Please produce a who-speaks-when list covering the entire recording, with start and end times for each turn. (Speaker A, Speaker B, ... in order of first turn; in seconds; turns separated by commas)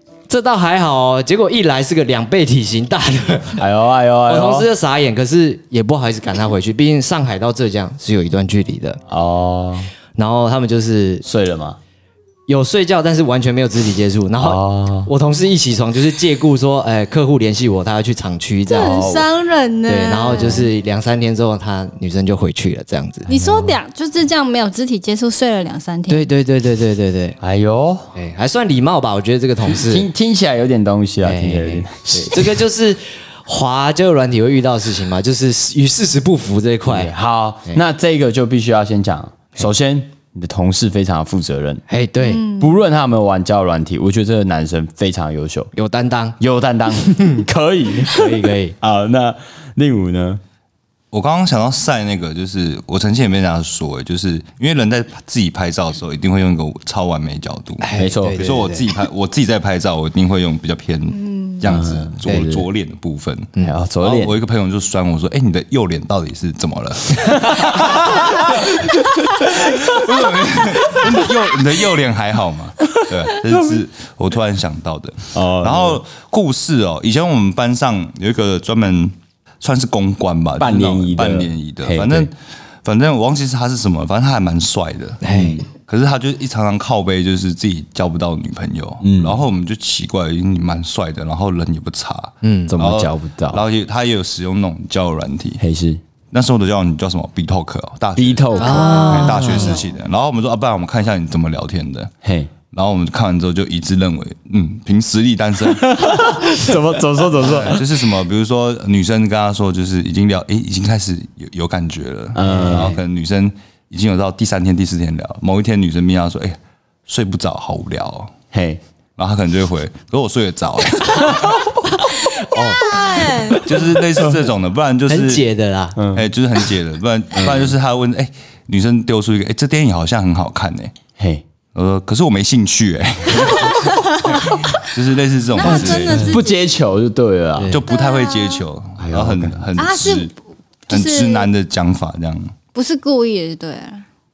Speaker A: 0.3-3.6, Speaker B: 3.6-4.7, Speaker A: 4.3-9.0, Speaker B: 9.1-9.9, Speaker A: 10.1-11.2, Speaker B: 11.2-11.8, Speaker A: 12.5-19.1, Speaker B: 14.4-15.1, Speaker C: 18.7-20.7, Speaker B: 18.8-19.3, Speaker A: 19.9-23.3, Speaker B: 23.3-23.8, Speaker C: 23.3-26.3, Speaker A: 26.1-27.4, Speaker B: 27.4-28.1, Speaker A: 28.1-30.1, Speaker B: 29.7-32.6, Speaker A: 31.2-37.1, Speaker B: 36.9-41.9, Speaker A: 41.9-42.4, Speaker C: 42.2-42.7, Speaker B: 42.5-45.7, Speaker A: 45.8-46.4, Speaker B: 46.4-50.4, Speaker A: 47.1-47.4, Speaker A: 48.1-48.8, Speaker D: 51.1-82.3, Speaker A: 57.8-58.9, Speaker B: 58.0-58.6, Speaker C: 61.1-61.7, Speaker B: 61.6-62.7, Speaker B: 63.6-64.3, Speaker B: 67.3-68.7, Speaker B: 75.3-76.0, Speaker B: 80.6-82.3, Speaker D: 82.8-95.6, Speaker A: 85.2-85.6, Speaker B: 85.3-85.7, Speaker B: 89.0-89.5, Speaker A: 92.4-92.8, Speaker B: 92.7-93.6, Speaker B: 95.6-96.0, Speaker D: 96.3-102.1, Speaker B: 98.2-99.3, Speaker C: 98.5-99.9, Speaker A: 98.6-99.8, Speaker B: 102.2-102.5, Speaker D: 102.7-106.3, Speaker B: 105.8-108.0, Speaker D: 107.4-118.3, Speaker B: 112.3-113.0, Speaker A: 112.5-112.9, Speaker B: 118.5-118.8, Speaker D: 119.2-121.8, Speaker A: 121.9-123.8, Speaker C: 122.5-123.7, Speaker D: 123.6-125.5, Speaker A: 125.1-126.0, Speaker B: 126.0-126.3, Speaker D: 126.1-130.9, Speaker B: 127.3-127.8, Speaker B: 131.2-131.4, Speaker D: 131.7-136.2, Speaker C: 133.3-134.8, Speaker C: 135.6-136.7, Speaker A: 135.7-136.4, Speaker B: 136.3-137.8, Speaker A: 137.6-137.8, Speaker D: 137.7-140.3, Speaker C: 137.9-138.6, Speaker B: 139.0-139.7, Speaker C: 139.8-140.3, Speaker C: 140.9-141.5, Speaker D: 140.9-142.5, Speaker C: 142.7-144.1